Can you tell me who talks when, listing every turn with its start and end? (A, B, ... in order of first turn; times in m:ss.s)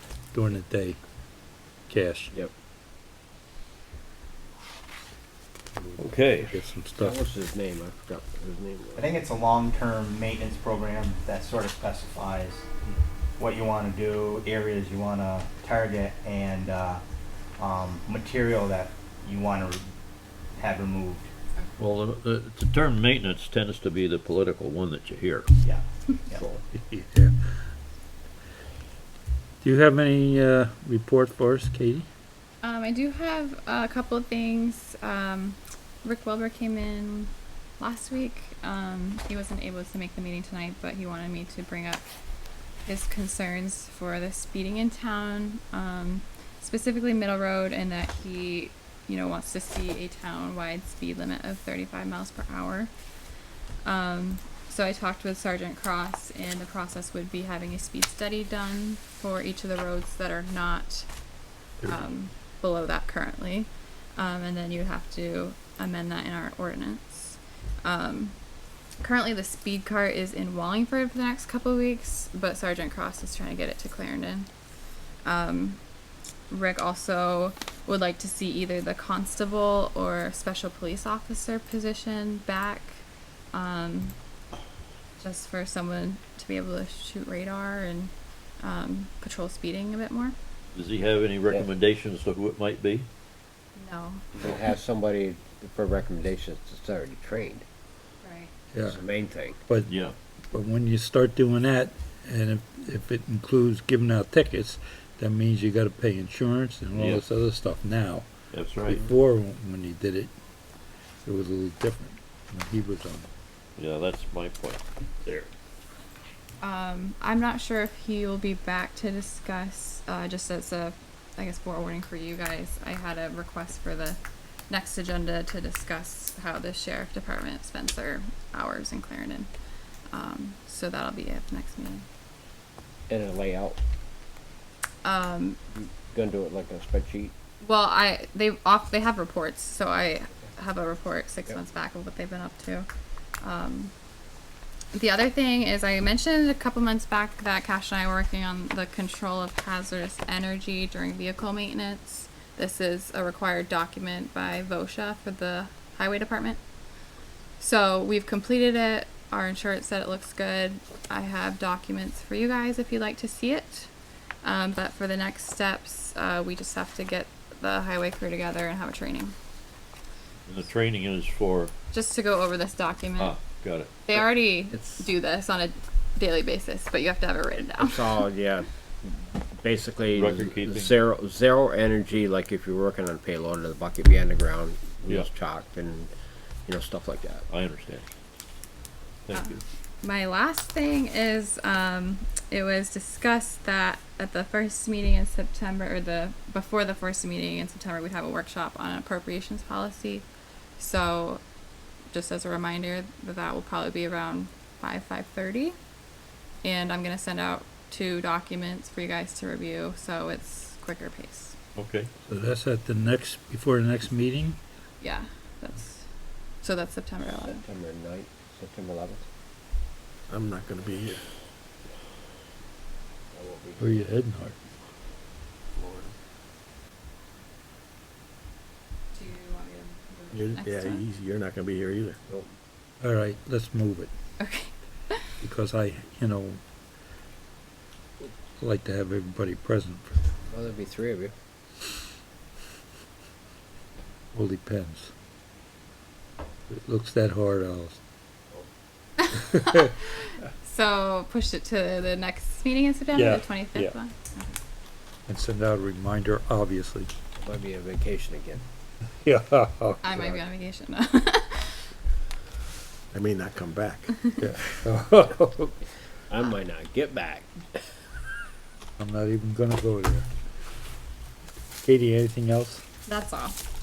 0:00.3-0:01.0 A
0:01.9-0:02.3 A
0:05.8-0:07.2 A
0:06.0-0:06.6 B
0:07.0-0:09.2 C
0:09.0-0:12.7 D
0:13.4-0:17.0 D
0:17.6-0:19.9 D
0:20.6-0:21.3 D
0:21.8-0:25.5 B
0:25.6-0:26.4 D
0:26.7-0:27.3 A
0:29.6-0:32.1 A
0:32.6-0:42.1 E
0:42.9-0:52.9 E
0:53.8-1:01.1 E
1:01.8-1:08.4 E
1:09.0-1:14.5 E
1:15.2-1:15.8 E
1:16.5-1:24.2 E
1:25.2-1:30.4 E
1:30.7-1:33.1 B
1:33.8-1:34.2 E
1:34.4-1:37.6 C
1:38.2-1:38.5 E
1:38.7-1:39.0 A
1:38.9-1:39.6 C
1:39.9-1:40.2 B
1:40.5-1:48.3 A
1:47.0-1:47.2 B
1:48.5-1:49.0 B
1:48.9-1:50.3 A
1:51.2-1:53.3 A
1:53.8-1:55.5 B
1:56.6-2:04.2 E
2:04.7-2:09.5 E
2:10.1-2:12.0 E
2:13.1-2:13.8 C
2:15.0-2:15.6 E
2:15.7-2:17.3 C
2:17.6-2:22.9 E
2:23.4-2:23.9 E
2:24.9-2:36.6 E
2:37.6-2:43.9 E
2:44.4-2:49.3 E
2:50.5-2:51.7 B
2:51.9-2:53.4 E
2:53.2-2:53.9 B
2:54.0-2:58.2 E
2:54.8-2:55.0 C
2:57.8-3:06.1 C
3:00.1-3:01.0 B
3:06.7-3:07.5 C
3:07.5-3:08.0 B
3:09.3-3:09.6 B
3:09.3-3:20.3 E
3:20.8-3:21.4 E
3:22.1-3:25.8 E
3:26.6-3:31.6 E
3:31.8-3:32.1 B
3:32.3-3:34.6 A
3:35.0-3:36.1 E
3:36.6-3:37.6 E
3:37.4-3:39.2 C
3:40.3-3:41.2 F
3:43.3-3:44.0 C
3:43.8-3:44.6 A
3:49.1-3:51.0 E
3:50.3-3:52.2 F
3:53.0-3:54.1 A
3:54.4-3:55.2 E
3:55.4-3:56.6 A
3:58.2-4:00.2 A
4:00.5-4:01.3 C
4:04.3-4:05.1 A
4:06.7-4:08.0 A
4:09.2-4:10.0 E
4:10.6-4:14.6 E
4:13.1-4:14.0 A
4:15.3-4:17.1 A
4:17.4-4:18.6 C
4:19.2-4:20.0 A
4:20.0-4:21.8 E
4:20.1-4:20.4 C
4:23.1-4:24.3 F
4:24.4-4:25.8 A
4:26.3-4:27.6 C
4:29.0-4:30.3 A
4:31.8-4:32.8 A
4:33.1-4:33.6 E